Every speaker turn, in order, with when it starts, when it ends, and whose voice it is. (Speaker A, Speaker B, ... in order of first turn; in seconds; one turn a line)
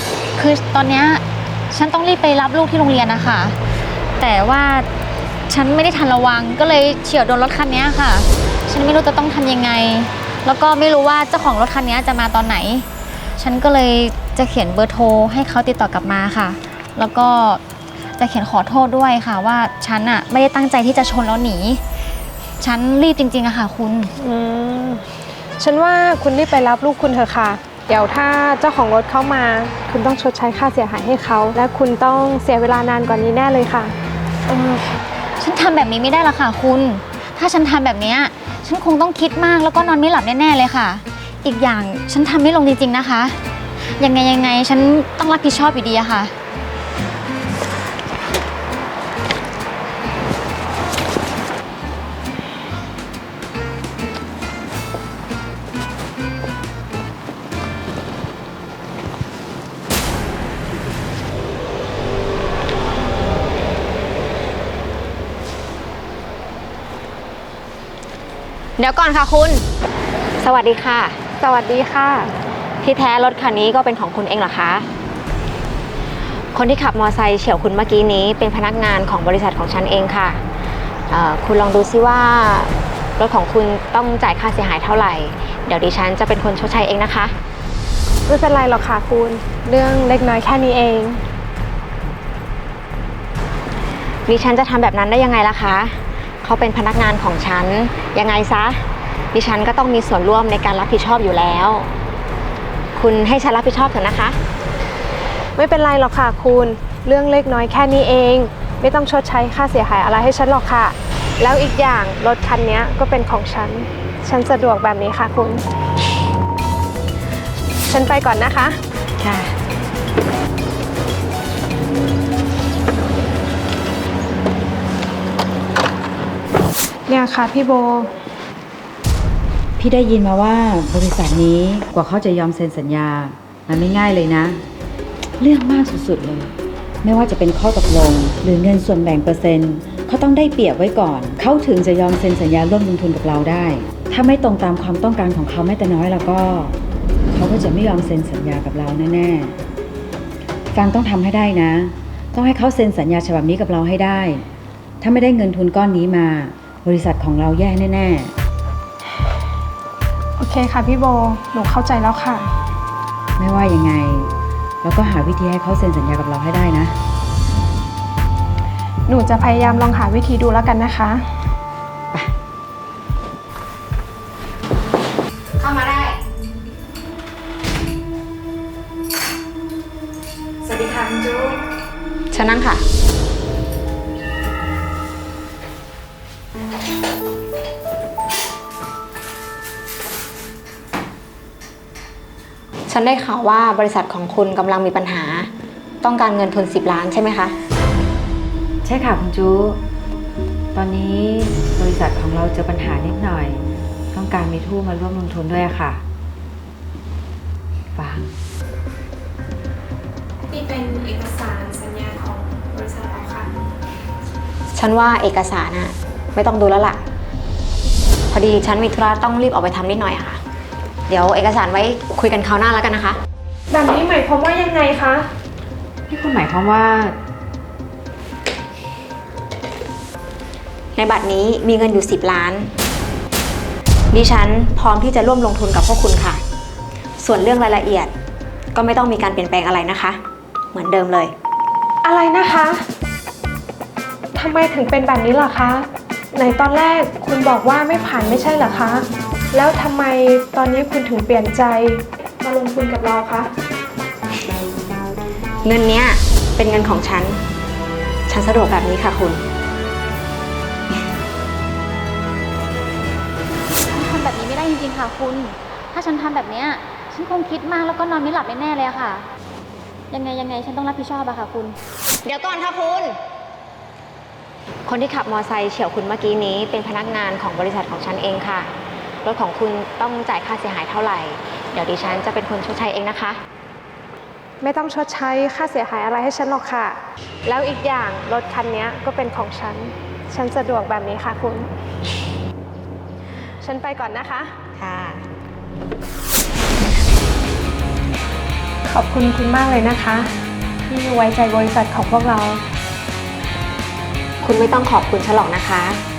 Speaker A: 0.4-3.6
Speaker A: 4.2-4.9
Speaker A: 5.5-17.6
Speaker A: 18.2-21.8
Speaker A: 22.6-24.1
Speaker B: 24.2-25.1
Speaker B: 25.6-34.0
Speaker A: 35.4-43.4
Speaker A: 44.0-46.3
Speaker C: 68.8-69.6
Speaker C: 70.4-71.2
Speaker B: 71.4-72.3
Speaker C: 72.8-74.9
Speaker C: 76.5-80.4
Speaker C: 81.1-87.3
Speaker B: 88.3-91.2
Speaker C: 94.3-101.9
Speaker C: 103.0-104.4
Speaker B: 105.6-115.6
Speaker B: 117.9-118.8
Speaker C: 119.2-119.5
Speaker B: 127.1-128.1
Speaker D: 129.8-134.6
Speaker D: 135.4-136.5
Speaker D: 137.0-146.8
Speaker D: 147.3-149.6
Speaker D: 150.7-154.4
Speaker D: 155.0-158.3
Speaker B: 160.4-162.5
Speaker D: 163.4-166.9
Speaker B: 169.1-171.2
Speaker C: 175.6-176.2
Speaker C: 180.7-181.6
Speaker C: 182.3-182.8
Speaker C: 192.9-195.5
Speaker C: 196.0-197.5
Speaker D: 198.8-199.8
Speaker D: 200.7-206.0
Speaker D: 207.9-208.3
Speaker B: 210.5-213.5
Speaker C: 214.7-217.0
Speaker C: 218.3-220.4
Speaker C: 221.1-223.2
Speaker B: 223.7-225.3
Speaker D: 226.1-227.2
Speaker C: 230.9-232.7
Speaker C: 234.1-236.4
Speaker C: 237.2-238.1
Speaker C: 238.7-240.2
Speaker C: 240.7-241.3
Speaker B: 242.0-242.8
Speaker B: 244.3-253.5
Speaker C: 255.6-257.4
Speaker C: 258.3-259.4
Speaker A: 263.9-269.3
Speaker A: 270.1-271.8
Speaker C: 272.2-273.2
Speaker C: 274.9-278.7
Speaker C: 279.2-283.4
Speaker B: 284.6-291.7
Speaker B: 293.6-294.6
Speaker C: 294.8-295.2
Speaker B: 298.9-300.3
Speaker B: 300.9-302.6
Speaker C: 304.4-306.0